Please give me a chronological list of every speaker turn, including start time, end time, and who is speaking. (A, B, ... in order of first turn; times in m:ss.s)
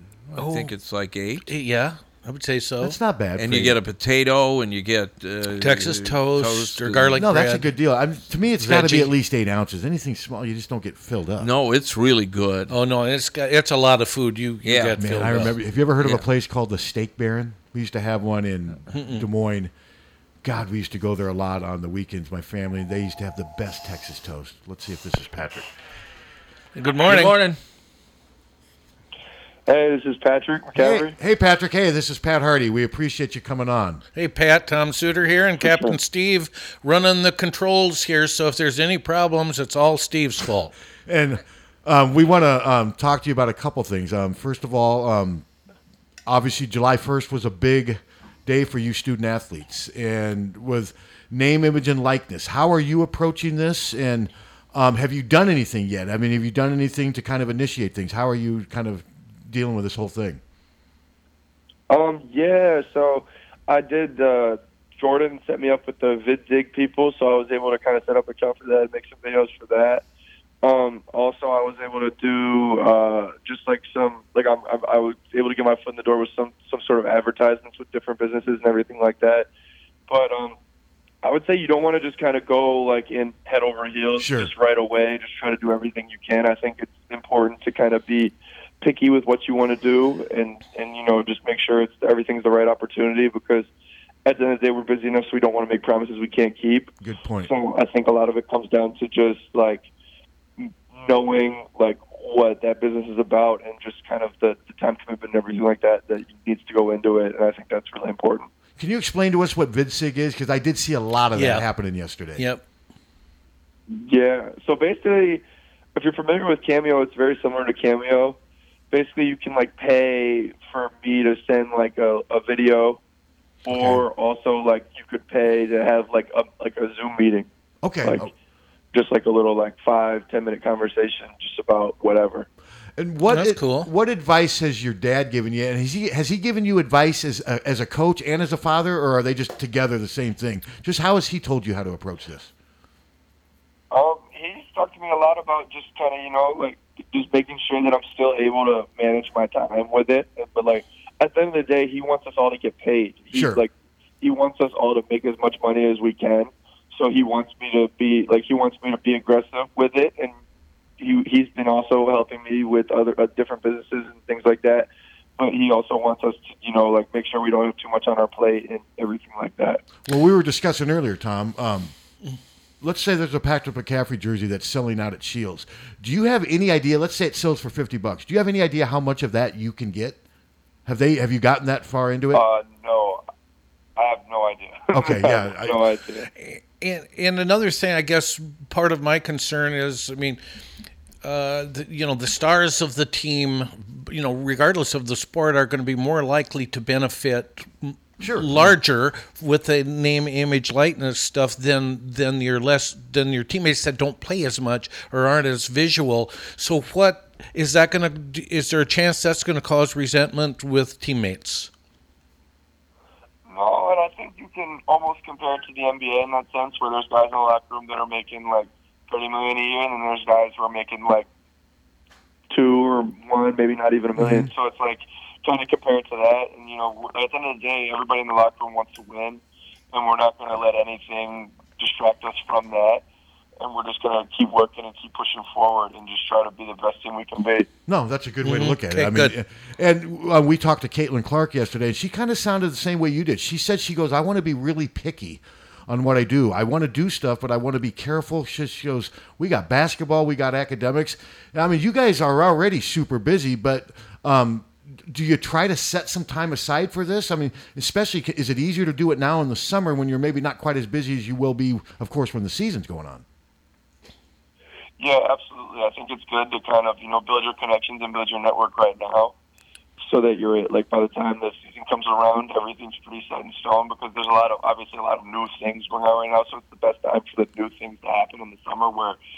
0:00.3-0:01.5 A
0:00.4-0:00.7 B
0:01.4-0:03.0 B
0:02.8-0:03.8 C
0:03.4-0:07.2 A
0:05.6-0:07.7 B
0:07.2-0:11.5 C
0:08.6-0:09.1 B
0:11.4-0:12.7 A
0:12.7-0:15.5 B
0:14.6-0:15.0 A
0:15.0-0:19.7 C
0:18.9-0:19.3 B
0:20.4-0:25.7 C
0:26.8-0:27.4 B
0:27.1-0:27.6 A
0:29.7-0:31.2 D
0:30.8-0:34.0 C
0:34.2-0:40.8 B
0:35.6-0:36.0 D
0:41.1-0:45.4 C
0:46.3-1:00.4 C
1:01.9-1:10.0 D
1:10.6-1:19.5 D
1:20.1-1:20.6 D
1:21.2-1:33.7 D
1:24.2-1:24.5 C
1:34.3-1:36.9 D
1:37.0-1:37.5 C
1:37.4-1:39.9 D
1:40.6-1:48.5 D
1:48.8-1:52.4 C
1:51.4-1:51.7 B
1:52.4-1:52.6 B
1:53.9-1:55.4 D
1:56.0-1:58.4 D
1:58.9-2:03.0 D
2:03.6-2:07.5 D
2:03.7-2:04.0 C
2:07.8-2:08.3 C
2:08.0-2:08.3 D
2:08.9-2:12.5 D
2:13.0-2:22.5 C
2:13.3-2:13.9 B
2:23.9-2:33.7 D
2:33.3-2:33.6 C
2:34.2-2:40.4 D
2:41.0-2:49.8 D
2:50.0-2:51.9 C
2:52.8-3:00.2 C
3:00.9-3:02.4 C
3:02.3-3:03.2 D
3:04.0-3:06.3 D
3:04.9-3:05.8 C
3:06.4-3:10.4 B
3:11.2-3:31.7 B
3:18.2-3:18.7 C
3:33.5-3:41.3 D
3:42.5-3:53.0 D
3:44.2-3:44.5 C
3:53.6-3:57.7 D
3:57.9-4:23.2 C
3:58.4-3:59.3 B
4:25.0-4:29.3 D
4:30.0-4:39.2 D